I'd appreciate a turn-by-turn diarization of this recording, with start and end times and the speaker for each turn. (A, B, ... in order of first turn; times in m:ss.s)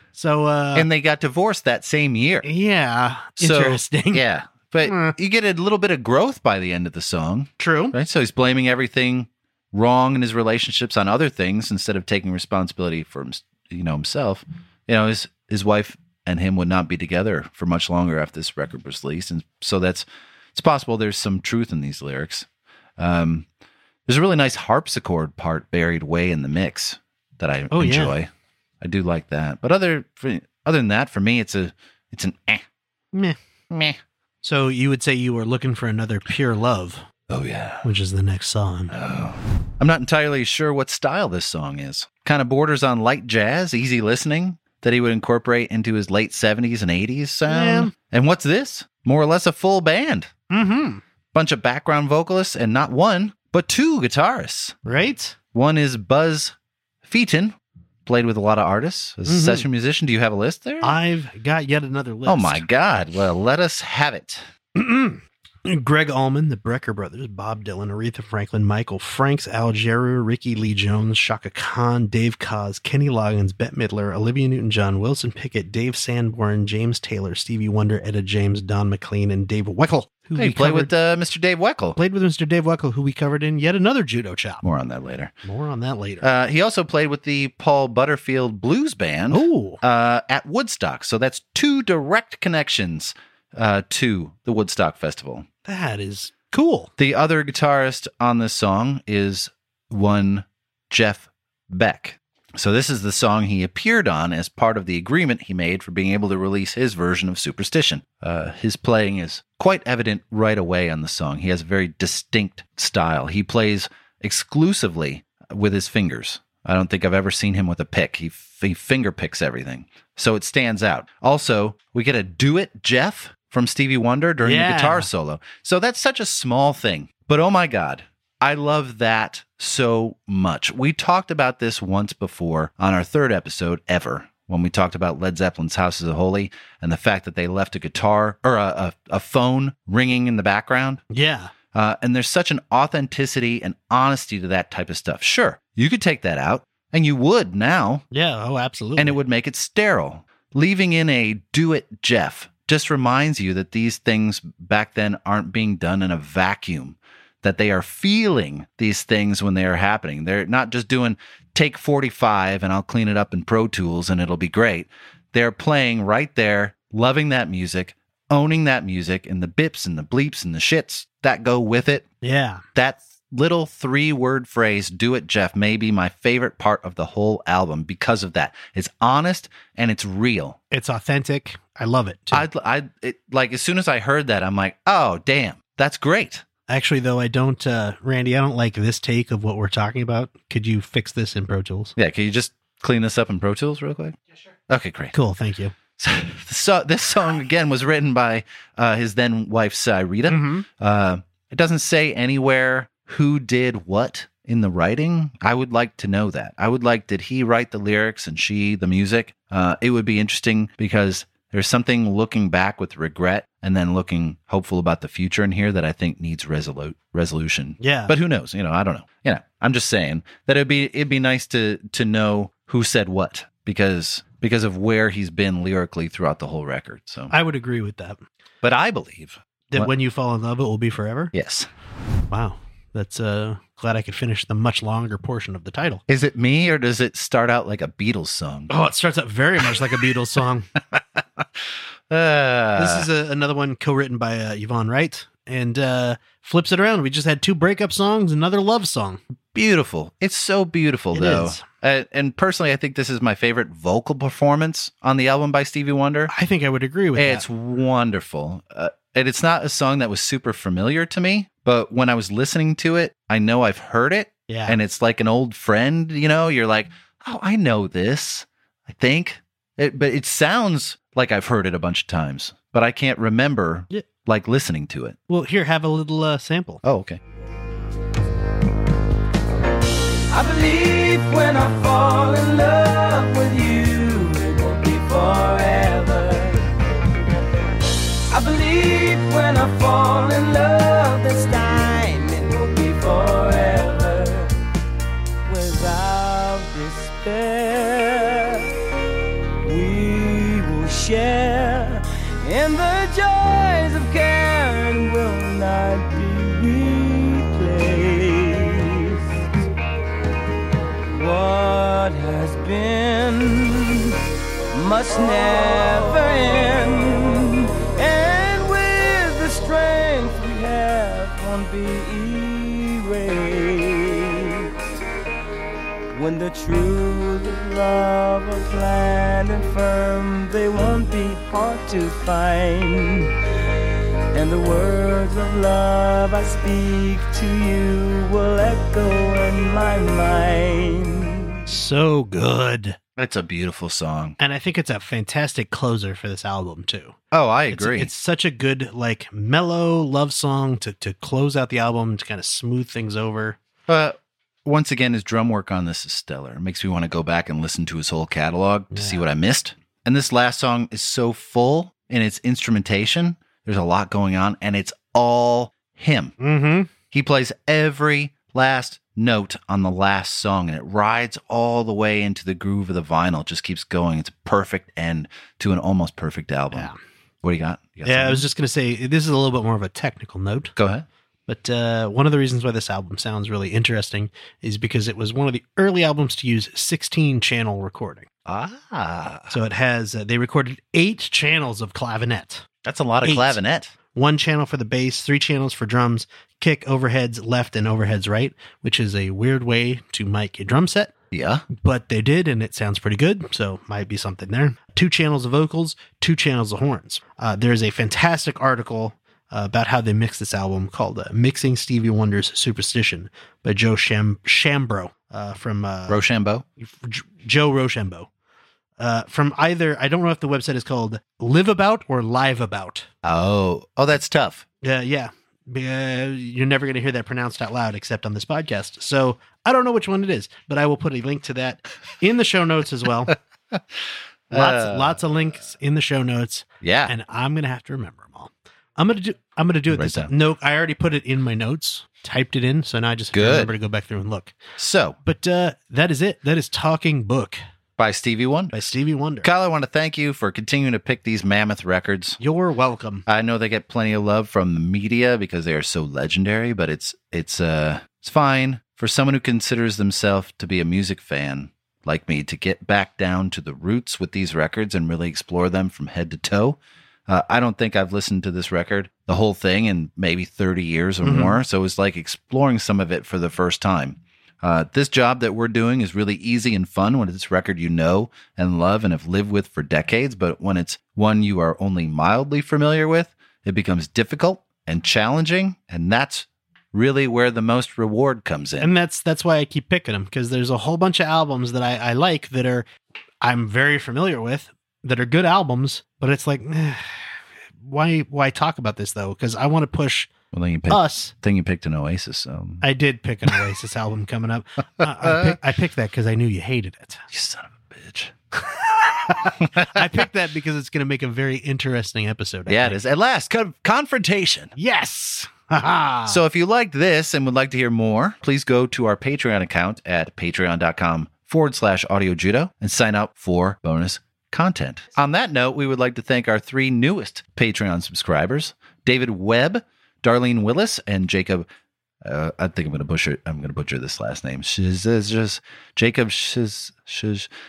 0:00.1-0:00.9 A
0:00.7-0:02.5 B
0:02.4-0:04.2 A
0:03.4-0:22.5 B
0:04.8-0:05.1 A
0:07.6-0:08.0 A
0:23.0-0:23.4 B
0:24.1-0:28.3 B
0:27.7-0:28.2 A
0:28.8-0:32.6 B
0:33.7-0:34.0 B
0:34.4-0:37.1 A
0:37.3-0:37.8 B
0:37.8-0:38.9 A
0:38.9-0:50.3 B
0:47.5-0:47.9 A
0:50.5-0:51.0 A
0:51.3-0:54.8 B
0:54.8-0:55.4 A
0:55.5-1:01.0 B
0:59.3-0:59.6 A
1:00.8-1:02.6 A
1:02.3-1:04.4 B
1:04.8-1:20.9 A
1:20.4-1:22.0 B
1:22.0-1:24.6 A
1:24.6-1:25.3 B
1:25.4-1:26.2 A
1:26.2-1:35.5 B
1:29.3-1:29.8 A
1:35.6-1:36.9 A
1:37.0-2:21.0 B
2:04.4-2:05.1 A
2:21.1-2:21.5 A
2:21.7-2:28.0 B
2:28.1-2:29.2 A
2:29.0-2:52.1 B
2:52.2-2:52.6 A
2:52.8-3:00.6 B
3:00.7-3:02.4 A
3:02.3-3:06.4 B
3:06.7-3:12.0 A
3:12.0-3:14.2 B
3:14.7-3:15.1 B
3:15.1-3:15.7 A
3:16.0-3:47.3 B
3:20.3-3:20.7 A
3:37.8-3:38.1 A
3:47.3-3:48.2 A
3:48.6-3:49.9 B
3:49.7-3:51.3 A
3:51.3-3:51.7 B
3:52.3-3:56.0 A
3:56.1-3:58.7 B
3:58.7-4:00.7 A
4:00.9-4:01.4 B
4:02.1-4:03.1 B
4:02.8-4:09.2 A
4:09.5-4:16.3 B
4:11.1-4:11.6 A
4:16.3-4:17.4 A
4:17.2-4:35.2 B
4:24.5-4:24.8 A
4:35.3-4:36.8 A
4:36.8-4:37.2 B
4:40.3-4:46.7 C
4:48.3-4:54.6 C
4:55.4-4:58.7 C
4:59.6-5:09.6 C
5:11.1-5:14.2 C
5:14.7-5:24.7 C
5:26.1-5:33.4 C
5:34.3-5:41.6 C
5:41.7-5:43.0 A
5:43.2-5:44.4 B
5:44.4-5:47.2 A
5:47.3-5:48.1 B
5:47.7-5:53.6 A
5:53.9-6:06.4 B
5:58.9-5:59.2 A
6:06.4-6:06.9 A
6:07.1-6:16.9 B
6:17.4-6:18.4 B
6:18.0-6:20.8 A
6:20.8-6:21.0 B
6:21.5-6:28.3 A
6:28.4-6:29.6 B
6:29.5-6:32.7 A
6:32.8-6:33.9 B
6:33.2-6:33.6 A
6:34.1-6:41.1 A
6:41.3-6:41.7 B
6:41.7-6:56.2 A
6:56.1-6:56.6 B
6:56.8-6:58.3 A
6:59.0-7:03.1 A
7:03.2-7:04.6 B
7:04.8-7:13.4 A
7:14.5-7:15.2 B
7:14.5-7:24.6 A
7:16.8-7:17.1 B
7:19.9-7:20.3 B
7:23.3-7:23.7 B
7:24.8-7:25.2 B
7:25.2-7:27.6 A
7:28.0-7:28.8 B
7:28.7-7:29.5 A
7:29.4-7:32.4 B
7:32.4-7:33.2 A
7:33.3-8:08.9 B
7:51.2-7:51.6 A
8:08.8-8:12.9 A
8:13.4-8:20.3 A
8:20.5-8:22.8 B
8:20.9-8:21.3 A
8:22.8-8:27.2 A
8:25.0-8:25.6 B
8:27.3-8:28.4 B
8:29.0-8:33.0 A
8:29.5-8:30.0 B
8:32.7-8:34.7 B
8:34.8-8:36.4 A
8:36.3-8:51.7 B
8:52.2-8:57.5 B